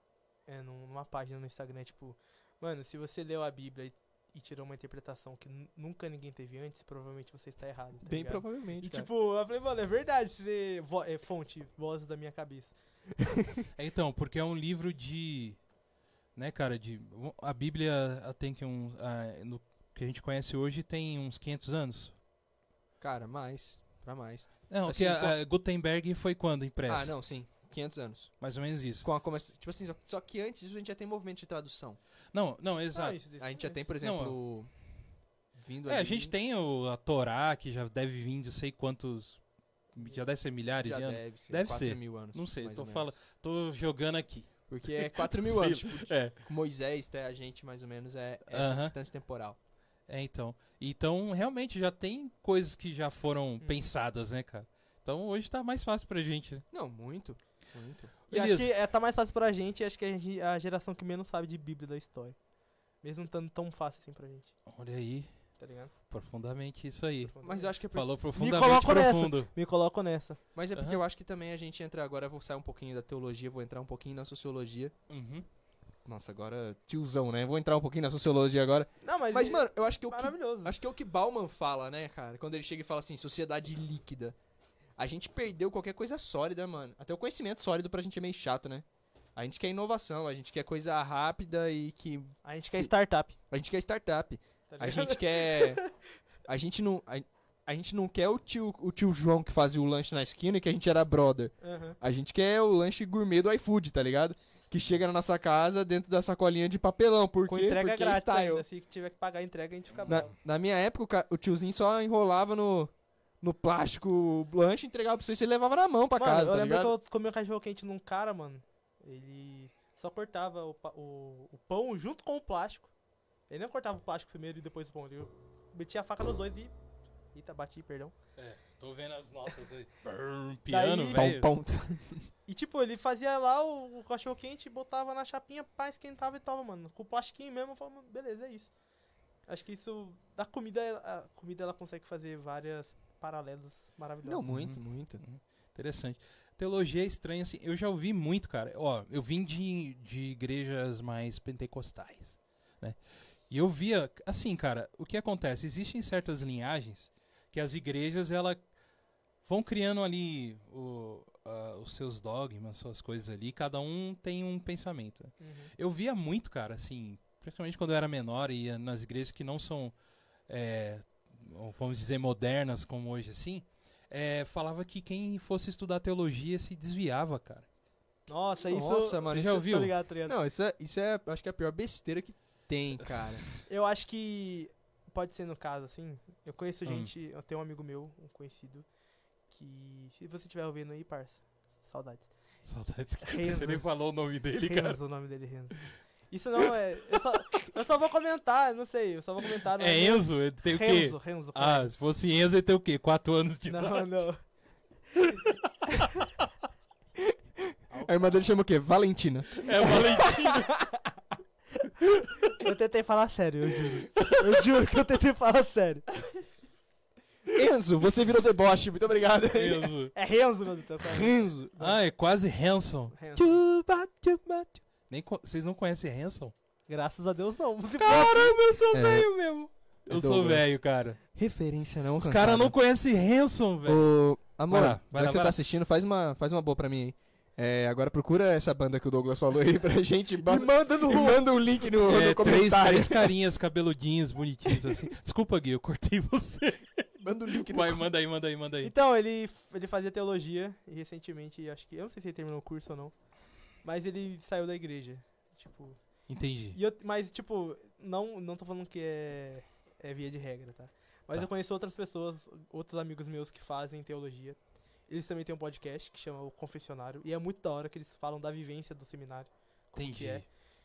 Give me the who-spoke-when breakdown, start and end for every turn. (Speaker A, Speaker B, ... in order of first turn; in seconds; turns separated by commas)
Speaker A: 0.5-12.7, Speaker B: 8.0-9.1, Speaker C: 13.7-15.6, Speaker C: 16.4-22.1, Speaker B: 23.0-25.3, Speaker C: 24.7-27.1, Speaker B: 26.9-28.4, Speaker C: 28.4-29.1, Speaker B: 29.0-32.0, Speaker C: 32.3-33.2, Speaker A: 32.9-33.9, Speaker B: 33.4-34.7, Speaker C: 34.0-34.4, Speaker B: 35.5-36.3, Speaker C: 35.9-46.4, Speaker A: 40.0-40.2, Speaker B: 40.7-43.1, Speaker B: 44.7-49.6, Speaker C: 48.5-48.9, Speaker C: 50.1-56.6, Speaker B: 56.7-58.1, Speaker C: 58.3-58.7, Speaker A: 58.3-62.4, Speaker A: 63.0-64.5, Speaker C: 64.7-65.3, Speaker A: 65.6-65.9, Speaker C: 66.1-67.3, Speaker A: 67.2-67.7, Speaker B: 67.4-68.1, Speaker C: 67.9-69.5, Speaker A: 68.3-70.4, Speaker B: 70.5-74.9, Speaker C: 70.7-71.0, Speaker C: 75.1-75.5, Speaker B: 76.0-84.3, Speaker A: 79.0-80.7, Speaker B: 85.0-92.9, Speaker A: 92.4-93.3, Speaker B: 93.5-95.8, Speaker A: 94.7-96.0, Speaker B: 96.5-108.6, Speaker A: 101.6-102.0, Speaker A: 107.5-110.3, Speaker C: 109.9-110.3, Speaker B: 110.1-116.9, Speaker A: 116.1-122.9, Speaker A: 123.5-126.7, Speaker A: 127.3-128.1, Speaker C: 128.4-131.5, Speaker A: 130.7-131.3, Speaker B: 131.1-132.3, Speaker A: 132.5-138.7, Speaker A: 139.5-144.4, Speaker B: 144.2-145.2, Speaker C: 144.5-158.6, Speaker C: 159.4-169.9, Speaker A: 165.4-165.7, Speaker C: 170.5-177.7, Speaker A: 178.3-180.3, Speaker B: 178.7-183.5, Speaker C: 179.3-179.9, Speaker A: 183.7-188.8, Speaker C: 186.8-187.1, Speaker A: 189.5-192.3, Speaker C: 192.6-195.0, Speaker A: 193.2-193.8, Speaker A: 194.6-201.9, Speaker C: 199.8-204.2, Speaker A: 203.7-204.4, Speaker A: 207.9-208.4, Speaker B: 208.0-210.9, Speaker C: 209.6-210.8, Speaker A: 212.6-216.2, Speaker B: 217.5-219.9, Speaker C: 219.5-220.1, Speaker A: 220.1-221.9, Speaker B: 221.0-221.9, Speaker C: 221.8-223.6, Speaker A: 223.1-223.6, Speaker B: 223.4-224.6, Speaker C: 225.0-226.5, Speaker A: 226.9-228.6, Speaker C: 228.0-231.2, Speaker B: 228.9-229.3, Speaker B: 230.1-230.8, Speaker B: 231.3-232.7, Speaker C: 232.2-234.1, Speaker B: 233.8-243.3, Speaker C: 234.7-235.6, Speaker A: 240.4-241.4, Speaker C: 242.0-248.9, Speaker B: 247.2-248.1, Speaker A: 248.8-253.1, Speaker A: 253.8-256.0, Speaker C: 256.3-256.8, Speaker A: 256.7-270.5, Speaker C: 269.9-270.4